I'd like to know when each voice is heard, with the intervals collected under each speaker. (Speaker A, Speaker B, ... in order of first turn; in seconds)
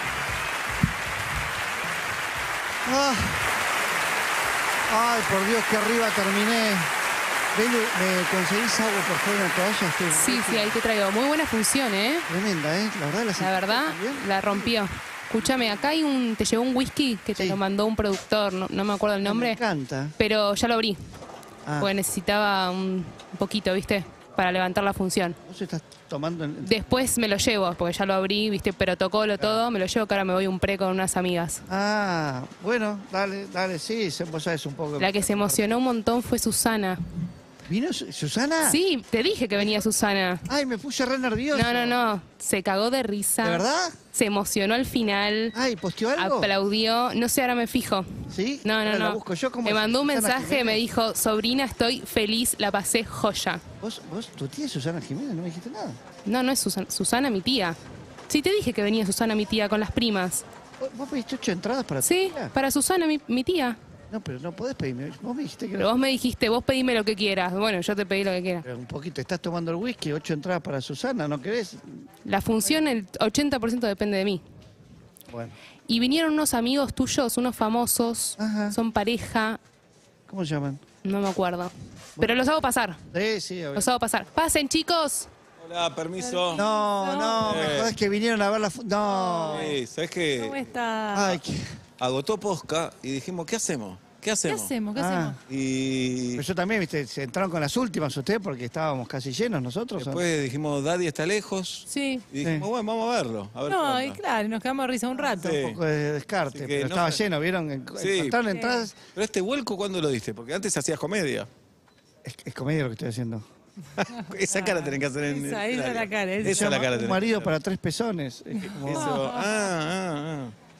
Speaker A: 2.8-3.4, 4.9-6.9, 7.5-10.8, 12.3-14.7, 19.2-20.1, 25.4-27.1, 29.4-29.6, 31.7-35.8, 37.7-38.8, 40.5-42.0, 43.4-44.0, 45.5-46.5, 48.3-50.8, 53.8-56.0, 60.8-62.5, 64.1-65.9, 68.6-72.0, 75.3-75.5, 78.4-78.8, 80.3-80.8, 83.1-83.9, 86.5-89.8, 91.1-91.7, 94.9-95.4, 96.3-100.2, 102.4-102.7, 105.1-109.0, 112.2-113.4, 116.4-119.2
Speaker B: 10.2-12.2, 13.4-19.6, 20.2-21.0, 21.8-25.4, 26.6-31.6, 35.0-37.0, 38.6-40.5, 41.5-45.5, 46.2-48.1, 48.6-53.6, 56.2-57.8, 58.3-60.4, 62.0-63.8, 65.8-68.6, 72.2-74.4, 75.9-79.6, 81.0-83.0, 83.8-85.3
Speaker C: 85.6-86.6, 87.4-87.9, 89.5-90.7, 92.0-94.7, 95.5-96.4, 100.0-104.2, 105.4-105.8, 106.5-107.2, 108.0-108.4, 109.1-111.5, 114.0-117.5, 118.8-120.5
Speaker D: 86.2-87.8, 89.0-89.7, 90.3-91.3, 94.4-95.4, 101.9-102.2, 103.7-105.6, 108.5-108.9, 114.4-116.8, 118.6-119.7